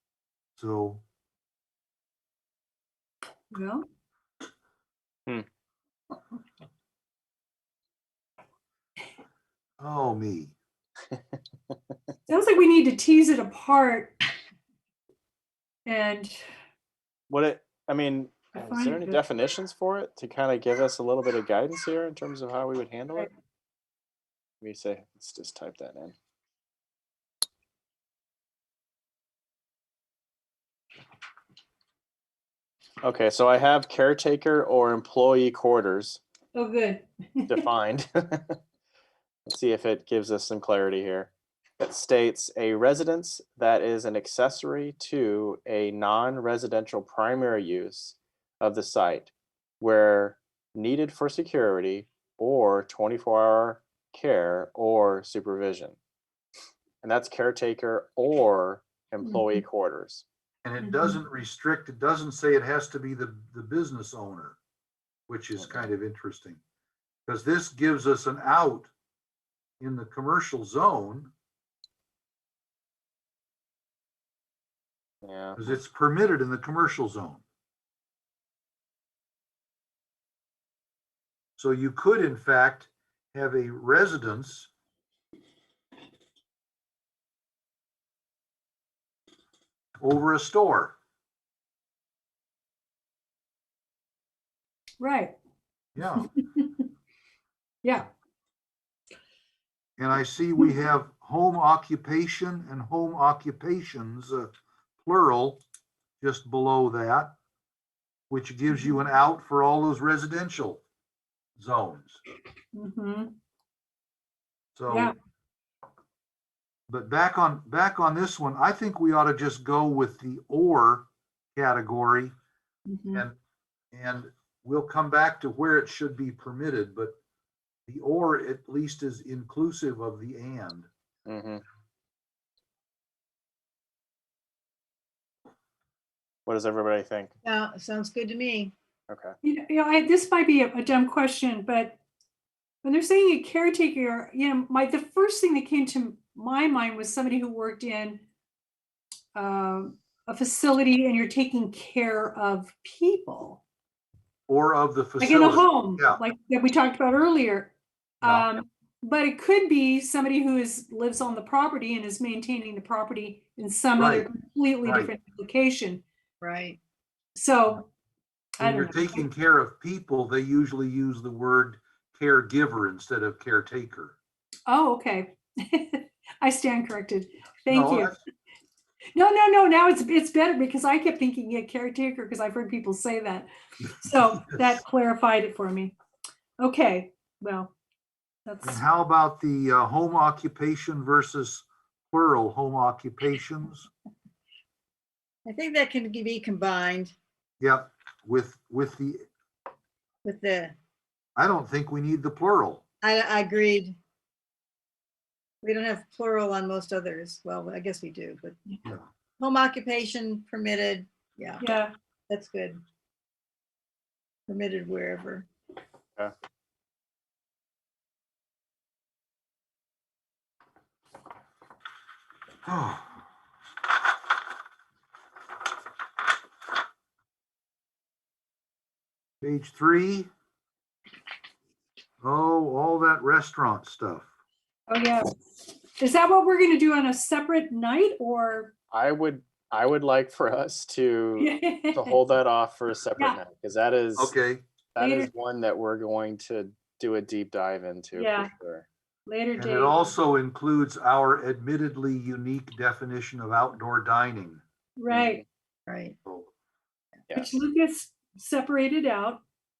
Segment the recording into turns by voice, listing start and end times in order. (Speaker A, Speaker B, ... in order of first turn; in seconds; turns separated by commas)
Speaker A: 0.6-1.0, Speaker B: 3.5-3.8, Speaker A: 9.8-10.5, Speaker B: 12.3-14.1, Speaker B: 15.8-16.4, Speaker C: 17.3-23.3, Speaker B: 18.5-19.2, Speaker C: 24.6-26.1, Speaker C: 33.0-36.2, Speaker B: 36.5-37.6, Speaker C: 37.5-38.6, Speaker C: 39.5-56.0, Speaker C: 57.0-60.2, Speaker B: 59.2-59.6, Speaker A: 60.6-64.6, Speaker B: 60.8-61.2, Speaker A: 65.3-66.6, Speaker C: 65.6-65.9, Speaker A: 67.3-68.9, Speaker A: 69.8-71.3, Speaker C: 75.2-75.8, Speaker A: 75.6-77.4, Speaker A: 81.6-84.7, Speaker A: 90.0-90.9, Speaker B: 95.0-95.3, Speaker A: 95.9-96.3, Speaker B: 96.2-96.8, Speaker A: 100.0-104.5, Speaker A: 105.0-105.6, Speaker A: 106.2-107.3, Speaker A: 108.3-110.8, Speaker B: 108.7-109.0, Speaker A: 111.6-112.2, Speaker B: 112.7-113.3, Speaker A: 114.7-115.1, Speaker B: 114.9-115.1, Speaker A: 116.9-122.3, Speaker B: 122.9-123.2, Speaker A: 123.9-127.2, Speaker A: 127.9-130.9, Speaker C: 131.3-131.6, Speaker C: 136.4-137.3, Speaker D: 137.4-138.7, Speaker C: 139.1-139.3, Speaker B: 139.4-142.0, Speaker B: 142.8-148.2, Speaker B: 149.3-153.6, Speaker A: 154.5-156.2, Speaker B: 155.2-166.0, Speaker A: 158.2-158.5, Speaker A: 164.0-164.3, Speaker A: 164.8-165.1, Speaker D: 166.4-166.8, Speaker B: 167.3-167.9, Speaker B: 168.6-169.2, Speaker A: 168.6-174.2, Speaker B: 174.7-178.1, Speaker A: 177.7-178.2, Speaker B: 179.1-185.9, Speaker B: 186.6-187.7, Speaker B: 188.4-188.8, Speaker A: 188.6-193.9, Speaker D: 195.4-197.1, Speaker A: 197.6-199.3, Speaker D: 200.2-200.8, Speaker A: 201.3-202.8, Speaker D: 203.0-203.9, Speaker D: 205.6-208.6, Speaker D: 209.4-211.6, Speaker B: 211.6-211.9, Speaker D: 212.3-212.8, Speaker D: 214.5-215.5, Speaker A: 222.7-223.2, Speaker A: 229.4-230.3, Speaker A: 232.2-234.3, Speaker B: 234.9-238.7, Speaker C: 238.9-244.3, Speaker B: 241.4-242.2, Speaker A: 244.2-244.6, Speaker C: 244.9-248.8, Speaker B: 245.0-245.3, Speaker B: 248.1-248.5, Speaker B: 249.2-250.1, Speaker A: 249.6-254.6, Speaker B: 255.0-255.4, Speaker C: 255.1-255.4, Speaker D: 255.9-256.1, Speaker A: 256.2-256.5, Speaker B: 257.3-259.4